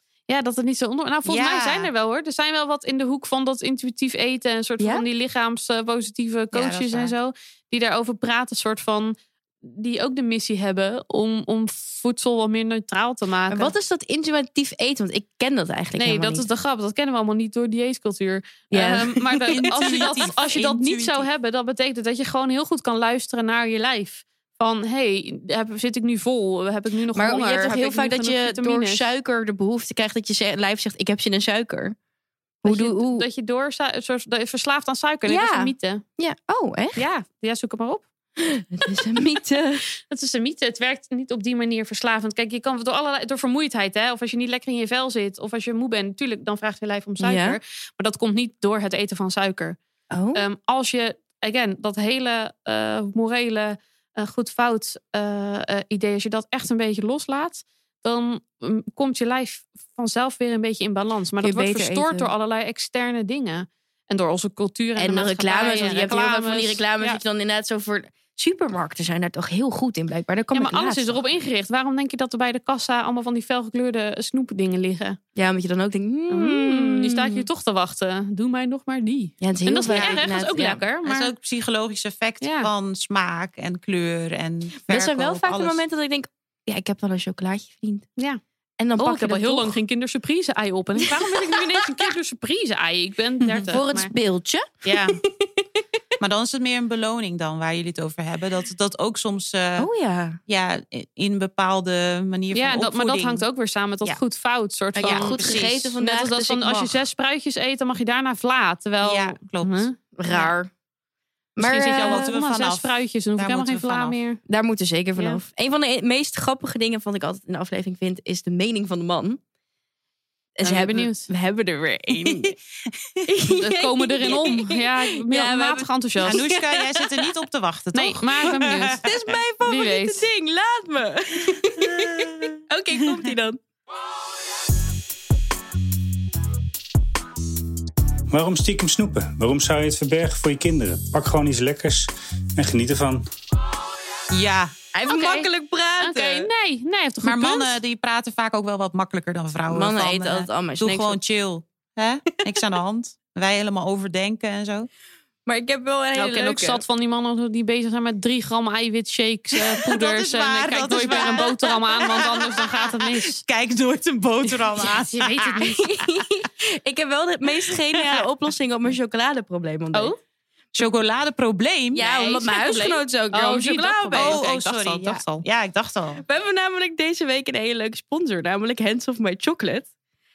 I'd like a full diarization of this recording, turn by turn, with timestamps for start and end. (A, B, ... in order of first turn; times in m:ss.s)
0:00.3-0:13.7 A
0:01.3-0:01.9 B
0:04.8-0:05.0 C
0:06.5-0:07.1 B
0:13.5-0:16.4 C
0:16.0-0:29.0 A
0:18.7-0:20.3 C
0:19.5-0:21.3 B
0:27.1-0:32.0 C
0:32.6-0:33.3 C
0:32.6-0:36.0 A
0:35.3-0:37.0 C
0:37.0-0:38.0 A
0:38.4-0:39.9 C
0:40.1-0:49.8 A
0:47.2-0:47.6 C
0:50.1-0:50.4 C
0:50.3-1:07.2 A
1:01.4-1:02.3 C
1:05.0-1:11.2 C
1:10.5-1:15.2 A
1:15.4-1:17.5 C
1:16.3-1:21.3 A
1:19.4-1:20.8 C
1:19.9-1:20.2 B
1:21.0-1:25.8 B
1:22.4-1:22.7 A
1:24.8-1:28.1 C
1:28.8-1:29.8 C
1:29.0-1:34.1 A
1:31.0-1:32.1 C
1:33.7-1:35.6 C
1:34.8-1:35.2 A
1:36.2-1:39.9 B
1:39.8-1:40.4 C
1:40.5-1:43.4 B
1:42.5-1:45.4 A
1:44.9-1:47.0 C
1:45.0-1:45.9 B
1:46.0-1:50.5 A
1:49.0-1:49.9 B
1:50.2-1:50.7 C
1:51.6-1:52.3 C
1:51.6-1:54.4 A
1:52.0-1:54.2 B
1:54.5-1:59.4 C
2:00.6-2:02.6 C
2:00.6-2:01.3 A
2:02.2-2:02.5 B
2:03.3-2:07.2 C
2:03.5-2:06.4 A
2:06.2-2:09.1 B
2:07.9-2:09.0 A
2:09.0-2:13.6 C
2:09.6-2:10.2 A
2:11.8-2:12.5 B
2:18.3-2:23.2 D
2:24.3-2:24.7 B
2:24.9-2:26.5 C
2:25.0-2:25.5 A
2:26.0-2:27.8 A
2:27.2-2:34.9 B
2:29.7-2:31.2 C
2:35.4-2:36.8 C
2:36.2-2:43.4 A
2:39.8-2:45.6 B
2:44.4-2:45.9 A
2:45.6-2:50.1 C
2:48.0-2:48.2 B
2:50.8-2:52.0 B
2:51.9-2:54.4 C
2:52.0-2:55.4 A
2:54.1-2:56.2 B
2:56.2-2:59.9 C